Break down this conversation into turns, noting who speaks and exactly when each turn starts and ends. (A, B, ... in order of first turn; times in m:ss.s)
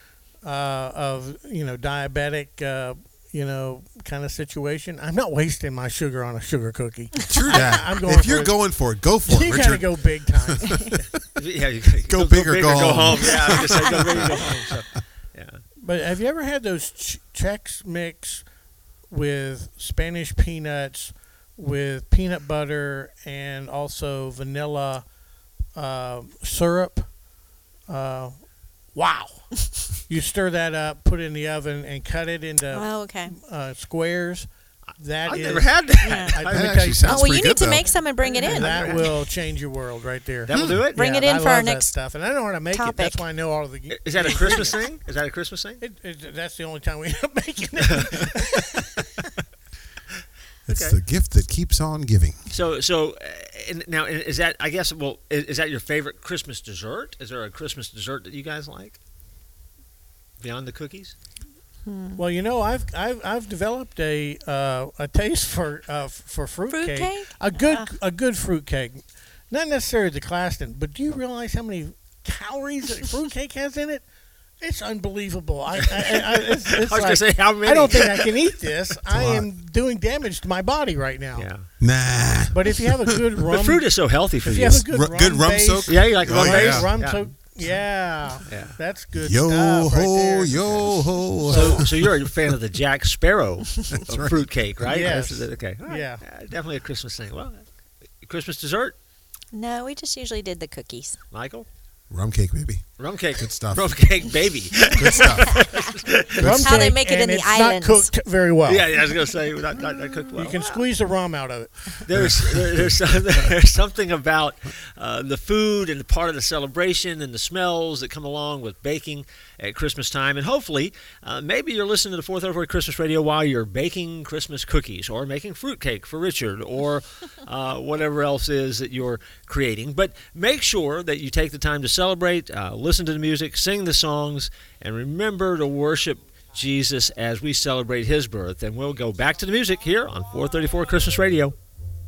0:00.4-0:08.6 A
0:07.3-0:11.2 B
0:09.2-0:10.8 A
0:11.4-0:15.6 C
0:12.1-0:14.6 B
0:15.8-0:18.4 A
0:19.1-0:25.0 A
0:25.7-0:27.1 A
0:27.9-0:28.4 A
0:28.9-0:29.5 A
0:30.0-0:37.6 A
0:32.7-0:33.3 D
0:34.9-0:36.9 C
0:36.0-0:36.4 D
0:36.4-0:37.9 B
0:37.0-0:39.1 D
0:38.2-0:44.8 A
0:38.2-0:39.1 C
0:40.4-0:41.0 C
0:40.5-0:40.8 B
0:40.9-0:41.9 D
0:42.7-0:43.2 D
0:43.9-0:45.8 C
0:45.8-0:49.0 A
0:50.7-0:52.4 B
0:50.7-0:51.0 C
0:52.5-0:59.0 C
1:00.4-1:01.1 C
1:01.8-1:02.2 D
1:02.2-1:14.0 A
1:06.7-1:07.9 D
1:14.6-1:21.5 A
1:15.8-1:18.3 C
1:19.1-1:19.5 B
1:21.3-1:21.7 C
1:21.8-1:23.0 B
1:22.5-1:23.9 A
1:23.5-1:24.8 C
1:24.4-1:31.8 A
1:24.5-1:26.9 B
1:25.9-1:27.3 C
1:28.5-1:28.8 C
1:29.1-1:32.2 B
1:31.5-1:37.7 C
1:33.9-1:34.4 B
1:34.8-1:36.2 A
1:38.2-1:39.0 C
1:39.5-1:41.2 D
1:41.3-1:41.7 C
1:42.1-1:44.0 B
1:43.0-1:46.5 C
1:44.7-1:45.8 B
1:45.2-1:45.8 D
1:46.4-1:47.0 B
1:46.4-1:49.0 A
1:46.5-1:48.1 D
1:48.6-1:50.8 C
1:50.3-1:52.0 A
1:52.0-2:21.5 C
1:52.1-1:52.9 B